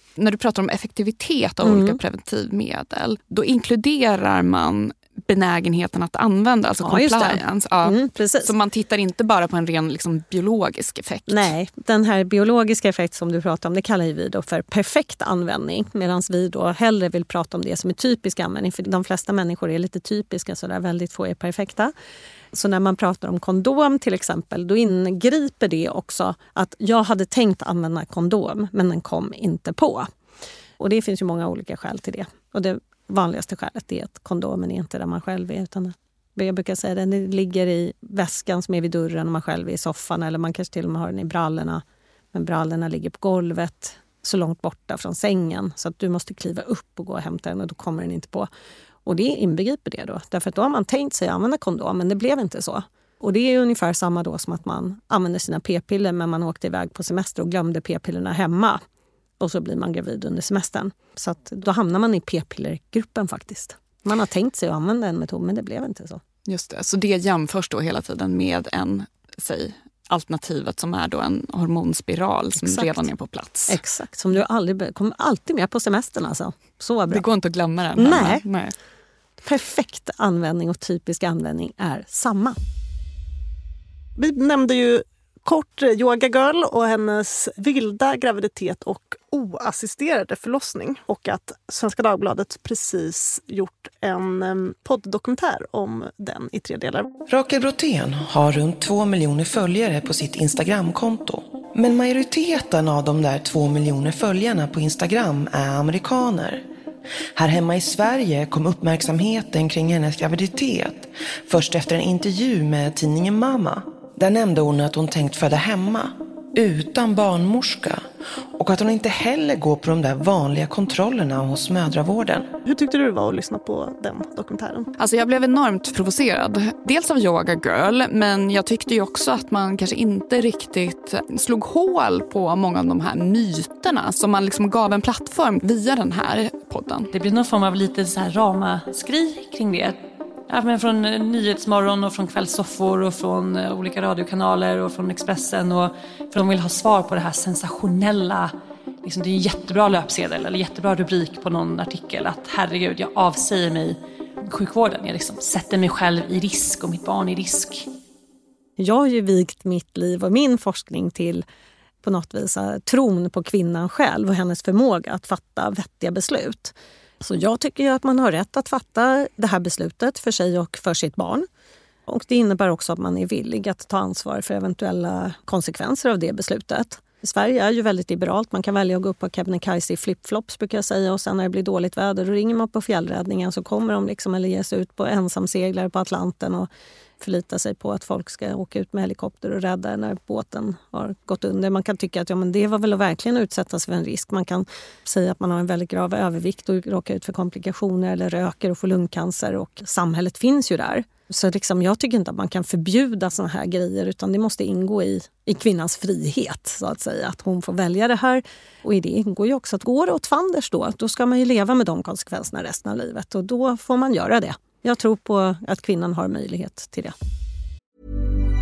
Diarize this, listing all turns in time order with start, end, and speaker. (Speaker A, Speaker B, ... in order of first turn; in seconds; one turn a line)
Speaker A: 0.2-11.5
Speaker B: 1.6-2.0
Speaker B: 6.8-8.5
Speaker B: 11.3-21.9
Speaker B: 22.5-30.1
Speaker B: 30.8-48.5
Speaker B: 49.0-58.8
Speaker B: 59.4-66.2
Speaker A: 66.5-73.8
Speaker B: 72.6-73.1
Speaker B: 73.7-77.2
Speaker A: 77.1-78.7
Speaker B: 78.0-78.4
Speaker B: 79.4-82.6
Speaker C: 84.2-97.1
Speaker D: 97.3-106.6
Speaker D: 107.4-118.0
Speaker D: 118.6-122.5
Speaker C: 122.7-124.9
Speaker A: 125.0-137.1
Speaker E: 137.1-157.9
Speaker B: 158.8-161.4
Speaker B: 162.0-171.5
Speaker B: 172.1-186.7
Speaker B: 187.2-217.1